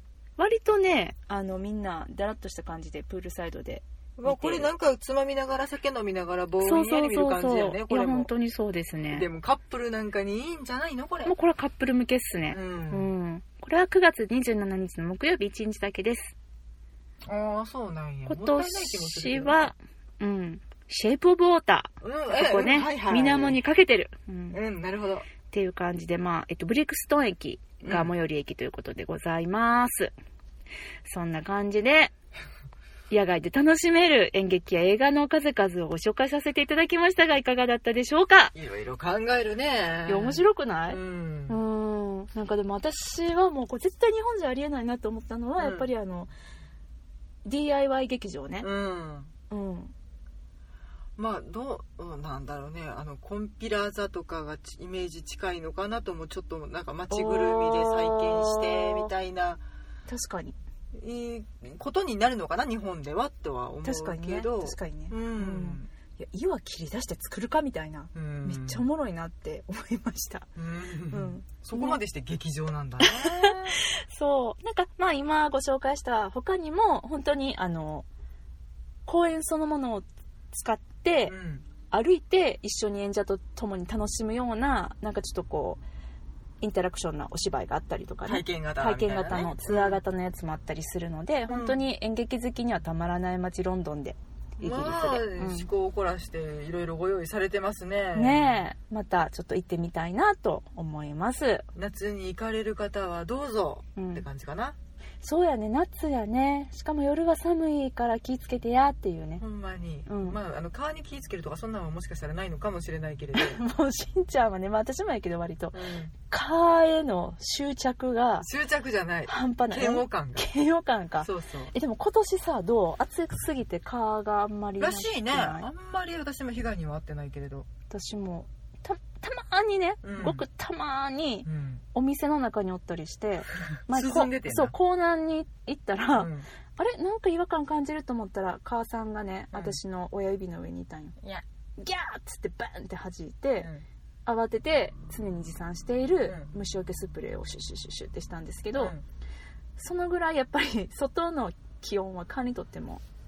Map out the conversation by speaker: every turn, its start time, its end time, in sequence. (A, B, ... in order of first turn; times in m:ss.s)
0:00.4-0:04.7 A
0:04.2-0:08.3 B
0:06.6-0:09.2 A
0:09.1-0:11.3 B
0:11.2-0:16.3 A
0:12.5-0:13.1 B
0:17.2-0:19.7 B
0:18.3-0:24.6 A
0:22.0-0:23.6 B
0:24.5-0:25.3 B
0:25.5-0:30.1 A
0:27.8-0:28.1 B
0:31.0-0:32.1 A
0:33.1-0:38.5 A
0:38.5-0:41.6 B
0:40.1-0:46.3 A
0:45.6-0:45.9 B
0:47.4-0:48.7 A
0:48.6-0:49.3 B
0:49.5-0:49.9 A
0:51.2-0:59.6 B
0:57.1-0:59.1 A
1:00.1-1:00.6 A
1:00.9-1:05.9 B
1:03.8-1:10.5 A
1:08.1-1:08.8 B
1:10.6-1:13.8 B
1:11.1-1:12.0 A
1:13.0-1:18.0 A
1:19.1-1:21.3 A
1:21.3-1:21.6 B
1:21.9-1:25.8 A
1:26.6-1:35.7 A
1:28.2-1:30.0 B
1:31.5-1:31.8 B
1:34.6-1:38.6 B
1:38.1-1:41.6 A
1:41.7-1:44.8 B
1:44.0-1:44.2 A
1:45.2-1:49.4 A
1:49.4-1:53.6 B
1:50.1-1:50.4 A
1:53.4-1:58.5 A
1:55.7-1:56.1 B
1:58.4-2:00.5 B
1:59.3-2:05.7 A
2:01.2-2:01.7 B
2:04.8-2:07.7 B
2:07.9-2:21.2 A
2:10.0-2:10.4 B
2:11.4-2:11.8 B
2:13.9-2:14.7 B
2:16.2-2:16.5 B
2:19.5-2:19.8 B
2:21.8-2:23.7 A
2:24.2-2:28.9 A
2:26.2-2:26.5 B
2:28.8-2:29.0 B
2:29.8-2:33.0 A